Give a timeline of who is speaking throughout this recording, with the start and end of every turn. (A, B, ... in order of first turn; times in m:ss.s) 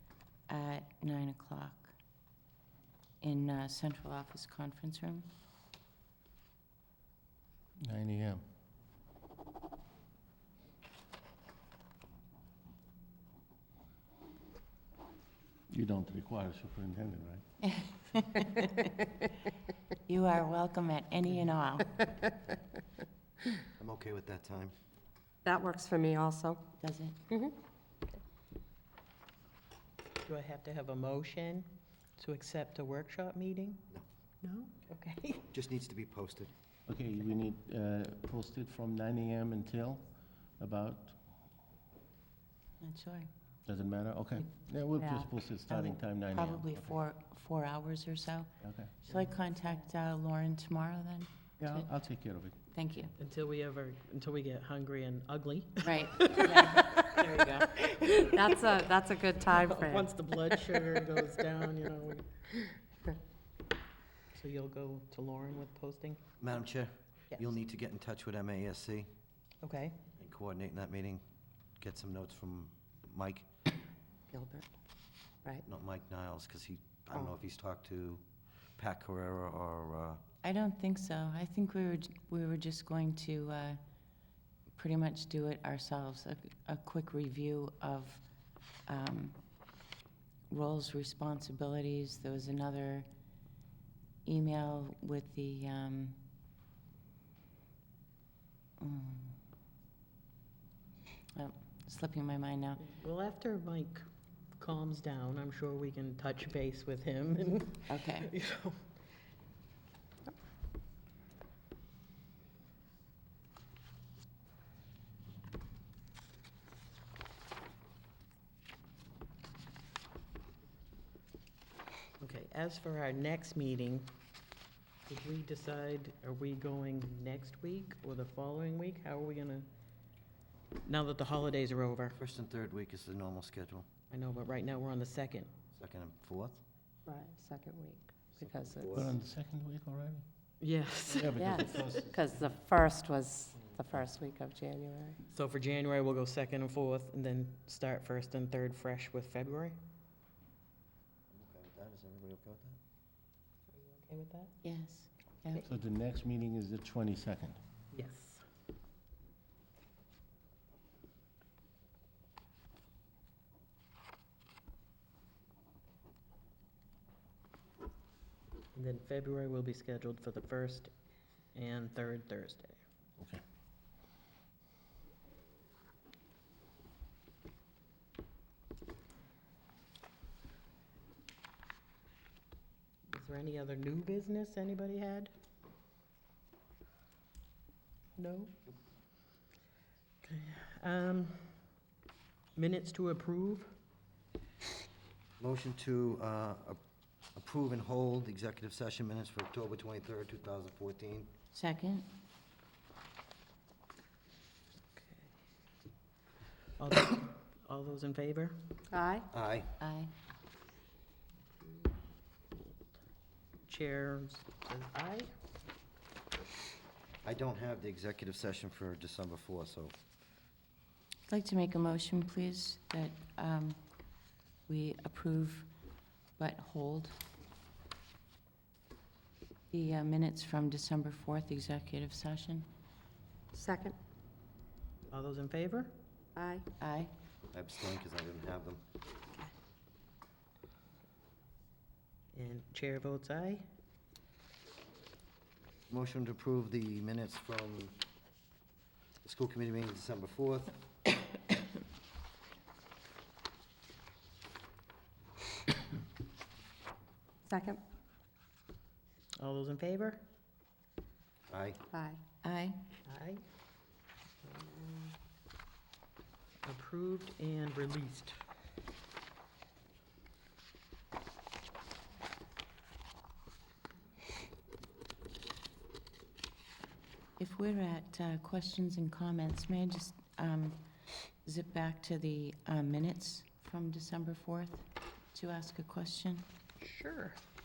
0:00.5-0:02.0 A
0:03.2-0:05.3 A
0:07.8-0:08.4 B
0:15.7-0:17.4 B
0:17.6-0:18.9 A
0:20.1-0:22.0 A
0:23.8-0:24.7 C
0:25.4-0:26.6 D
0:26.8-0:27.2 A
0:27.3-0:27.6 D
0:30.3-0:33.9 E
0:34.4-0:35.5 E
0:35.5-0:36.5 C
0:36.9-0:41.2 B
0:42.8-0:43.3 A
0:43.7-0:46.8 B
0:45.0-0:45.3 D
0:45.7-0:51.9 A
0:48.6-0:48.9 B
0:51.6-0:52.6 B
0:52.7-0:53.1 A
0:53.2-0:58.9 E
0:55.8-0:57.0 A
0:58.3-1:00.1 D
0:59.5-1:02.3 E
1:04.3-1:06.2 E
1:06.4-1:09.1 C
1:09.6-1:10.0 E
1:10.2-1:11.2 C
1:11.8-1:13.5 C
1:14.3-1:14.7 D
1:15.6-1:18.2 C
1:18.8-1:20.2 C
1:20.4-1:23.8 A
1:24.8-1:28.2 A
1:28.9-1:29.4 A
1:30.5-1:33.1 A
1:34.2-1:36.2 A
1:38.8-1:39.4 A
1:41.4-1:42.8 A
1:42.8-1:44.0 E
1:44.6-1:48.9 E
1:47.9-1:48.3 A
2:02.2-2:04.1 E
2:05.1-2:09.7 E
2:10.8-2:12.2 E
2:12.2-2:13.9 C
2:14.1-2:15.5 E
2:15.8-2:16.6 C
2:17.1-2:19.1 D
2:18.3-2:19.1 C
2:18.9-2:20.2 B
2:20.6-2:21.4 E
2:21.1-2:22.5 B
2:21.4-2:25.2 D
2:25.3-2:29.8 E
2:31.3-2:32.8 C
2:33.7-2:34.5 E
2:34.6-2:35.6 A
2:35.6-2:37.6 B
2:37.9-2:38.4 E
2:48.7-2:50.9 E
2:51.5-2:52.8 E
3:03.1-3:05.3 E
3:08.2-3:08.6 E
3:10.2-3:11.7 E
3:12.6-3:13.8 E
3:15.4-3:16.8 C
3:17.4-3:21.3 C
3:21.5-3:22.1 A
3:25.0-3:25.3 E
3:26.8-3:28.7 E
3:28.9-3:29.3 D
3:29.3-3:29.7 C
3:29.8-3:30.1 A
3:33.7-3:35.3 E
3:37.2-3:40.0 C
3:41.3-3:43.8 A
3:44.7-3:45.7 A
3:46.4-3:47.2 A
3:49.7-3:52.7 A
3:53.5-3:54.0 D
3:55.1-3:56.0 E
3:56.4-3:56.6 D
3:56.8-3:57.1 A
3:57.5-3:58.8 C
4:02.3-4:03.7 E
4:05.9-4:08.0 C
4:09.2-4:10.8 C
4:17.5-4:17.8 D
4:19.4-4:20.2 E
4:21.5-4:21.8 C
4:21.9-4:22.2 D
4:22.4-4:22.8 A
4:23.1-4:23.4 E
4:24.4-4:25.2 E
4:26.6-4:28.4 E
4:37.4-4:40.8 A
4:41.4-4:46.5 A
4:46.8-4:47.4 E